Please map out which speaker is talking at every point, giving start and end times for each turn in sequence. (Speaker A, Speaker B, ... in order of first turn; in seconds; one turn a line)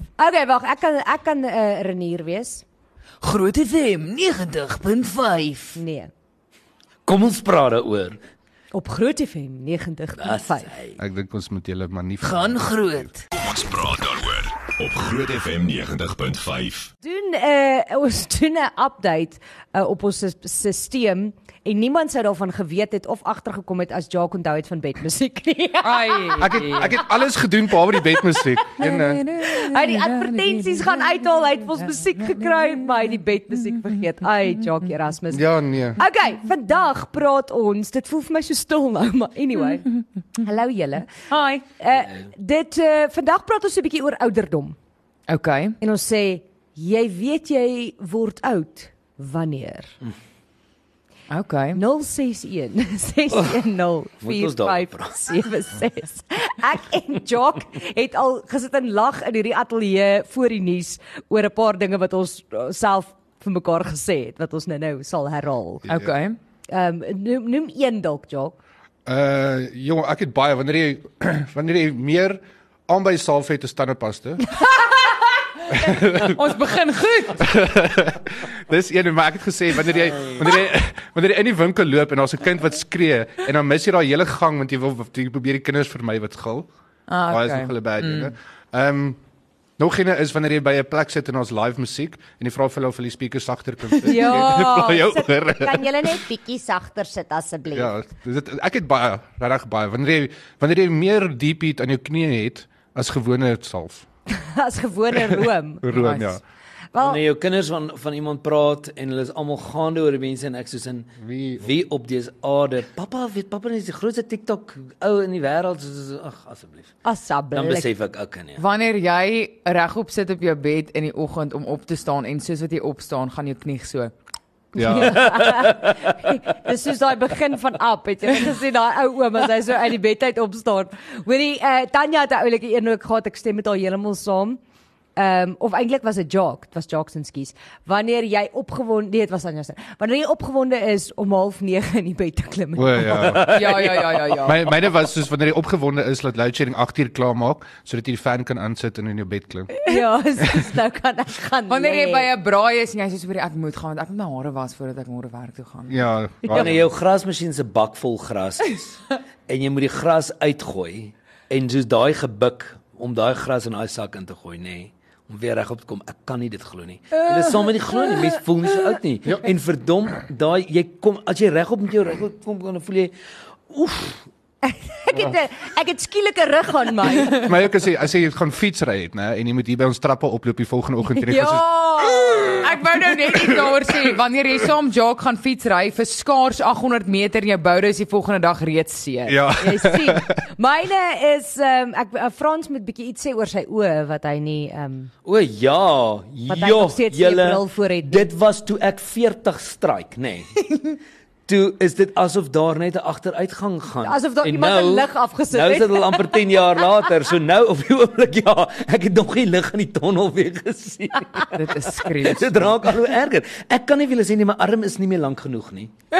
Speaker A: 0.2-2.6
Speaker B: 3.2-5.8
Speaker A: 5.7-6.1
Speaker C: 7.0-8.2
Speaker A: 8.7-10.7
Speaker C: 10.2-11.0
Speaker D: 11.0-12.6
Speaker B: 12.2-13.2
Speaker E: 13.3-16.9
Speaker A: 17.0-26.8
Speaker B: 25.8-27.0
Speaker D: 26.4-29.2
Speaker A: 27.9-28.4
Speaker B: 28.8-31.3
Speaker A: 29.4-41.1
Speaker B: 31.8-33.1
Speaker D: 35.3-36.0
Speaker B: 41.3-41.6
Speaker A: 41.8-44.8
Speaker B: 45.3-45.8
Speaker A: 45.8-49.9
Speaker B: 51.3-51.8
Speaker A: 51.7-65.8
Speaker C: 53.3-53.6
Speaker C: 54.2-55.1
Speaker D: 65.8-66.1
Speaker B: 65.9-66.3
Speaker A: 66.7-68.5
Speaker D: 69.0-74.4
Speaker D: 75.7-76.4
Speaker B: 76.1-77.5
Speaker D: 77.4-86.7
Speaker B: 87.1-88.3
Speaker D: 87.3-89.2
Speaker D: 89.8-96.2
Speaker A: 94.0-97.9
Speaker B: 94.1-94.6
Speaker D: 97.7-104.0
Speaker A: 104.3-105.8
Speaker D: 105.2-106.4
Speaker B: 105.9-106.3
Speaker A: 106.9-107.2
Speaker C: 107.0-116.9
Speaker D: 111.2-111.7
Speaker A: 117.0-117.9
Speaker C: 117.5-118.6
Speaker B: 118.6-124.1
Speaker D: 124.7-125.3
Speaker A: 124.7-134.6
Speaker C: 125.2-125.8
Speaker A: 135.2-143.4
Speaker D: 142.8-149.7
Speaker C: 143.1-144.2
Speaker B: 143.5-144.7
Speaker A: 149.8-152.3
Speaker B: 151.7-156.0
Speaker D: 155.9-156.9
Speaker C: 156.5-173.1
Speaker C: 173.7-174.2
Speaker A: 174.6-177.5
Speaker D: 177.2-181.8
Speaker A: 181.2-182.9
Speaker B: 182.2-189.4
Speaker D: 189.3-190.3
Speaker A: 189.6-195.1
Speaker C: 195.2-200.8
Speaker A: 196.5-198.3
Speaker C: 201.5-215.9
Speaker A: 204.0-206.7
Speaker B: 211.5-212.8